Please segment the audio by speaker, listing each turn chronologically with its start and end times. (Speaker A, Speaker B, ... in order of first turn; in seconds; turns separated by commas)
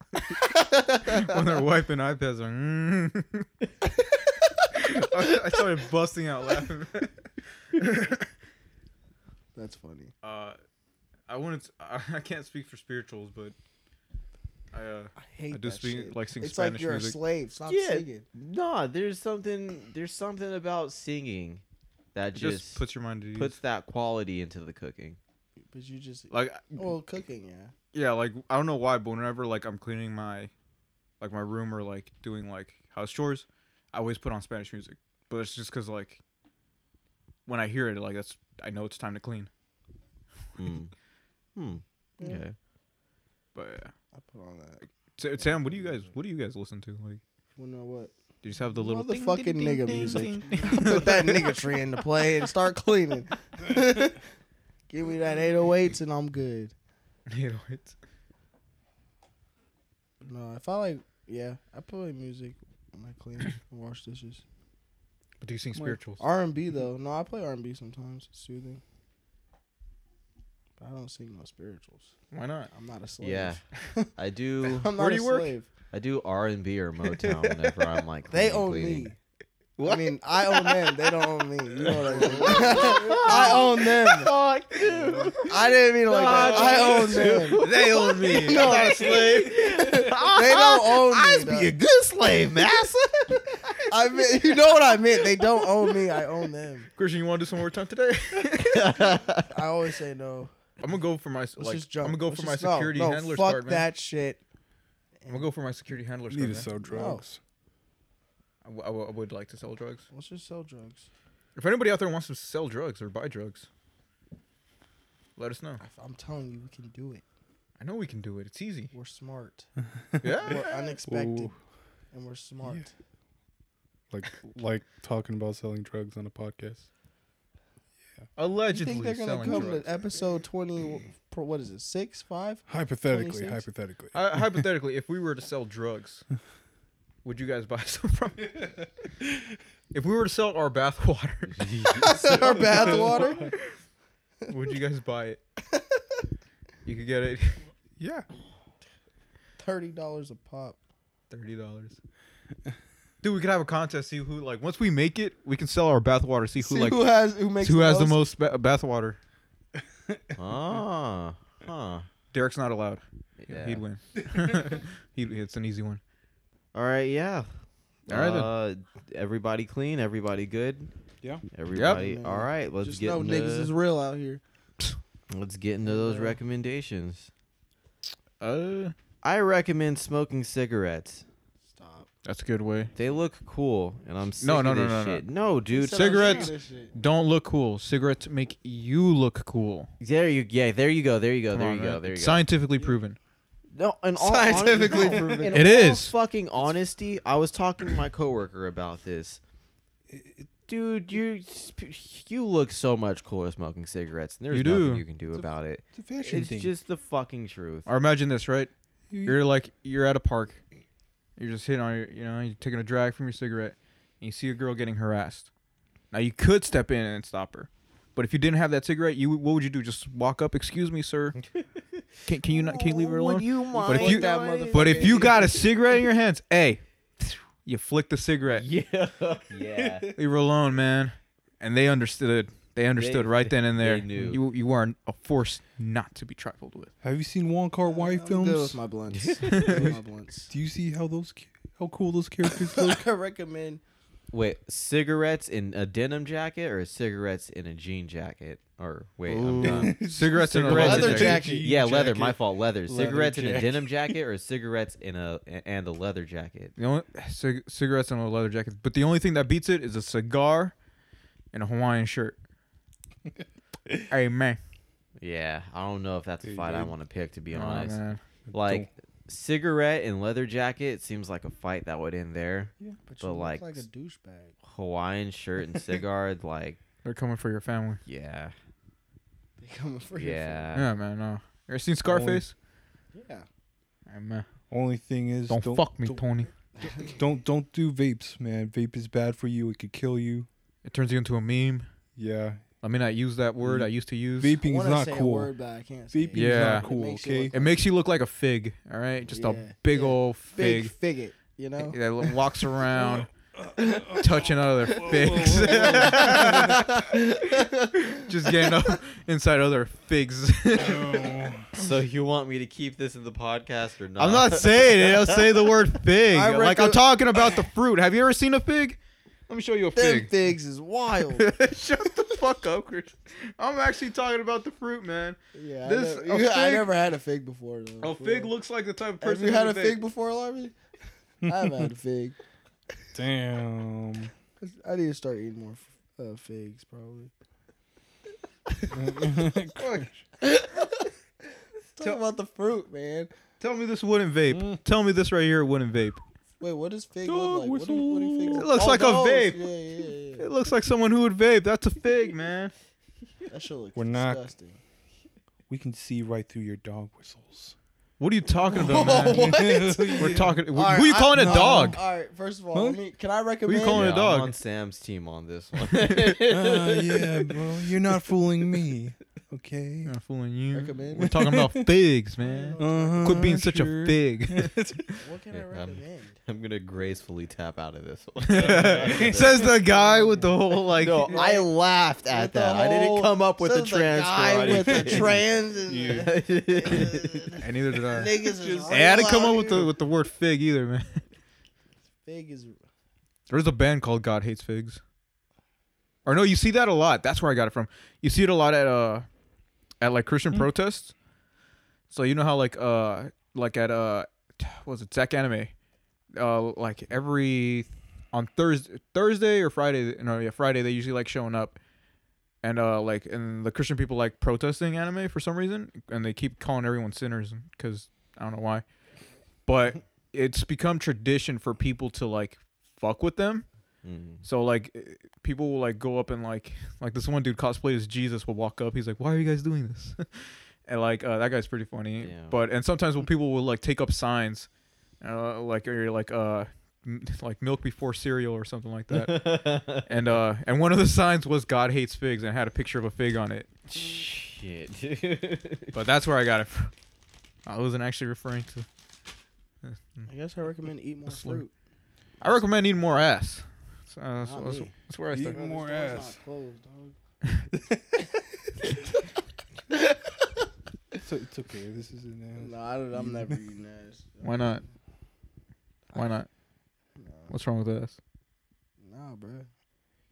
Speaker A: 0.6-1.2, Speaker B: 1.0-3.5, Speaker B: 4.7-7.2, Speaker B: 7.8-8.2, Speaker A: 9.6-10.1, Speaker B: 10.2-10.6, Speaker B: 11.3-13.6, Speaker B: 14.7-17.2, Speaker A: 15.2-18.2, Speaker C: 17.7-21.6, Speaker C: 22.1-22.8, Speaker B: 22.3-23.6, Speaker C: 23.4-25.2, Speaker A: 25.7-27.7, Speaker B: 26.3-26.9, Speaker B: 27.9-30.5, Speaker B: 31.2-36.2, Speaker B: 37.5-39.5, Speaker C: 40.6-40.9, Speaker C: 41.5-42.5, Speaker A: 42.2-42.4, Speaker B: 43.5-43.9, Speaker A: 44.1-44.9, Speaker B: 45.2-47.2, Speaker A: 47.6-48.1, Speaker B: 48.4-51.6, Speaker A: 48.8-54.2, Speaker A: 54.9-56.7, Speaker B: 57.3-58.0, Speaker A: 60.2-64.4, Speaker B: 65.4-66.2, Speaker A: 66.2-68.8, Speaker A: 70.8-72.1, Speaker B: 72.3-72.7, Speaker A: 72.7-74.1, Speaker C: 73.2-73.6, Speaker C: 74.2-74.9, Speaker A: 74.6-75.7, Speaker B: 75.0-75.5, Speaker C: 75.9-79.1, Speaker A: 78.3-79.2, Speaker B: 79.8-80.1, Speaker A: 79.8-84.3, Speaker B: 81.8-83.6, Speaker C: 82.0-94.6, Speaker B: 85.1-85.5, Speaker A: 85.4-87.6, Speaker B: 86.1-89.7, Speaker A: 88.2-91.7, Speaker A: 93.9-96.9, Speaker C: 95.4-95.8, Speaker B: 97.0-98.9, Speaker C: 98.5-99.5, Speaker A: 99.4-100.5, Speaker B: 100.8-103.9, Speaker A: 101.6-104.4, Speaker B: 105.3-106.7, Speaker D: 106.3-107.4, Speaker A: 106.9-107.2, Speaker B: 108.6-110.0, Speaker A: 110.1-111.1, Speaker B: 111.6-113.7, Speaker B: 115.4-115.8, Speaker A: 115.8-117.2, Speaker B: 117.8-118.9, Speaker A: 118.9-119.7, Speaker B: 120.2-120.9, Speaker A: 120.5-121.5, Speaker D: 121.0-121.5, Speaker A: 122.1-122.9, Speaker D: 124.1-126.9, Speaker B: 128.4-129.8, Speaker A: 128.7-133.6, Speaker D: 132.7-134.5, Speaker B: 134.1-136.2, Speaker B: 137.2-138.7, Speaker B: 139.9-141.7, Speaker C: 141.5-142.6, Speaker A: 141.9-143.5, Speaker B: 142.3-143.5, Speaker D: 142.4-143.5, Speaker B: 144.5-145.4, Speaker B: 146.8-147.6, Speaker D: 148.0-148.3, Speaker A: 149.6-150.8, Speaker B: 151.3-152.0, Speaker B: 153.2-157.0, Speaker A: 156.6-158.2, Speaker B: 157.6-159.2, Speaker C: 160.3-162.1, Speaker B: 162.3-166.0, Speaker C: 163.4-163.8, Speaker C: 166.7-167.5, Speaker C: 168.1-170.9, Speaker B: 168.1-168.5, Speaker C: 171.5-173.7, Speaker B: 171.7-172.1, Speaker A: 171.8-174.4, Speaker C: 175.3-177.3, Speaker A: 175.8-176.4, Speaker B: 178.4-178.9, Speaker C: 179.2-181.2, Speaker A: 181.7-182.1, Speaker B: 182.2-182.9, Speaker C: 182.9-186.5, Speaker B: 184.4-185.2, Speaker A: 185.7-186.9, Speaker B: 185.9-189.9, Speaker C: 190.0-192.5, Speaker B: 191.5-193.2, Speaker C: 193.7-199.4, Speaker A: 194.2-195.7, Speaker D: 194.9-195.5, Speaker B: 195.5-196.2, Speaker D: 200.1-200.5, Speaker C: 200.7-207.9, Speaker B: 204.5-205.1, Speaker D: 205.3-206.7, Speaker B: 207.9-208.7, Speaker D: 209.1-209.4, Speaker B: 209.2-210.6, Speaker B: 211.4-215.5, Speaker B: 216.1-221.4, Speaker C: 221.4-225.6, Speaker B: 222.2-228.7, Speaker A: 223.7-225.6, Speaker C: 228.5-230.1, Speaker D: 229.8-230.0, Speaker B: 230.2-236.9, Speaker C: 233.0-234.4, Speaker D: 237.0-238.8, Speaker A: 237.8-240.5, Speaker C: 239.1-239.9, Speaker B: 239.5-239.8, Speaker D: 239.7-239.9, Speaker D: 240.5-243.0, Speaker A: 242.7-243.8, Speaker C: 244.3-250.0, Speaker D: 249.3-254.1, Speaker B: 249.5-251.4, Speaker A: 250.6-251.8, Speaker C: 250.6-256.7, Speaker B: 256.8-260.7, Speaker B: 261.5-262.4, Speaker B: 264.1-264.6, Speaker C: 265.2-268.0, Speaker D: 266.4-266.9, Speaker B: 267.5-268.2, Speaker D: 268.5-268.9, Speaker C: 268.5-273.8, Speaker A: 273.1-274.6, Speaker C: 274.6-276.8, Speaker B: 277.0-278.0, Speaker C: 278.1-278.5, Speaker A: 279.6-280.7, Speaker C: 280.2-280.9, Speaker B: 280.8-282.5, Speaker D: 282.1-282.4, Speaker A: 283.1-283.5, Speaker B: 284.1-284.5, Speaker D: 284.7-286.2, Speaker B: 285.5-286.5, Speaker A: 286.8-287.1, Speaker D: 286.8-290.5, Speaker B: 290.9-291.9, Speaker D: 292.2-292.6, Speaker B: 292.8-294.6, Speaker D: 293.6-295.5, Speaker A: 294.6-297.8, Speaker D: 296.1-297.5, Speaker B: 296.3-296.9, Speaker B: 297.5-300.9, Speaker A: 299.3-302.3, Speaker B: 301.8-303.3, Speaker D: 303.7-306.8, Speaker A: 303.8-304.2, Speaker B: 304.1-307.2, Speaker A: 305.3-308.2, Speaker B: 308.1-311.4, Speaker D: 310.8-311.7, Speaker C: 311.8-315.5, Speaker B: 314.2-320.3, Speaker A: 316.3-317.6, Speaker A: 319.9-321.5, Speaker B: 321.3-326.9, Speaker A: 325.5-328.5, Speaker B: 328.0-330.0, Speaker A: 329.2-330.7, Speaker A: 331.4-332.4, Speaker D: 333.1-334.3, Speaker A: 334.6-337.3, Speaker A: 338.8-339.4, Speaker D: 338.9-340.2, Speaker B: 339.8-340.1, Speaker A: 340.4-341.1, Speaker A: 342.0-343.3, Speaker B: 343.6-346.2, Speaker D: 344.5-344.8, Speaker A: 346.6-350.5, Speaker D: 347.2-348.7, Speaker B: 348.5-349.6, Speaker B: 350.4-352.7, Speaker A: 353.5-354.8, Speaker D: 354.0-354.4, Speaker D: 355.7-357.8, Speaker B: 358.2-362.0, Speaker A: 358.7-364.1, Speaker D: 358.8-360.6, Speaker D: 361.3-362.0, Speaker D: 362.7-363.0, Speaker B: 363.7-364.6, Speaker C: 363.9-368.2, Speaker D: 366.4-370.1, Speaker B: 370.1-375.2, Speaker A: 370.7-371.4, Speaker D: 371.2-371.9, Speaker A: 372.4-373.6, Speaker D: 372.8-375.1, Speaker A: 375.2-376.4, Speaker C: 375.5-379.8, Speaker B: 378.4-381.4, Speaker D: 378.7-379.4, Speaker A: 380.0-380.5, Speaker C: 380.9-385.4, Speaker A: 381.3-381.7, Speaker A: 382.3-389.9, Speaker D: 384.6-386.3, Speaker C: 386.1-387.6, Speaker B: 387.6-388.3, Speaker D: 388.4-389.5, Speaker B: 388.9-391.2, Speaker A: 392.2-392.8, Speaker B: 393.5-395.0, Speaker B: 396.2-399.3, Speaker B: 400.0-401.1, Speaker B: 402.1-405.7, Speaker B: 406.3-411.8, Speaker B: 412.6-418.9, Speaker B: 419.7-423.7, Speaker C: 424.0-424.4, Speaker B: 424.4-434.7, Speaker C: 432.2-432.6, Speaker B: 435.2-443.7, Speaker C: 439.1-440.1, Speaker C: 443.9-446.0, Speaker B: 445.9-446.9, Speaker B: 447.7-448.9, Speaker B: 449.8-450.3, Speaker A: 450.3-451.7, Speaker B: 451.3-451.6, Speaker B: 452.4-455.6, Speaker A: 454.4-457.1, Speaker D: 455.3-456.4, Speaker D: 461.2-463.6, Speaker A: 462.6-464.8, Speaker B: 464.4-464.8, Speaker B: 466.1-466.5, Speaker A: 467.2-467.5, Speaker B: 467.5-468.2, Speaker A: 469.0-469.7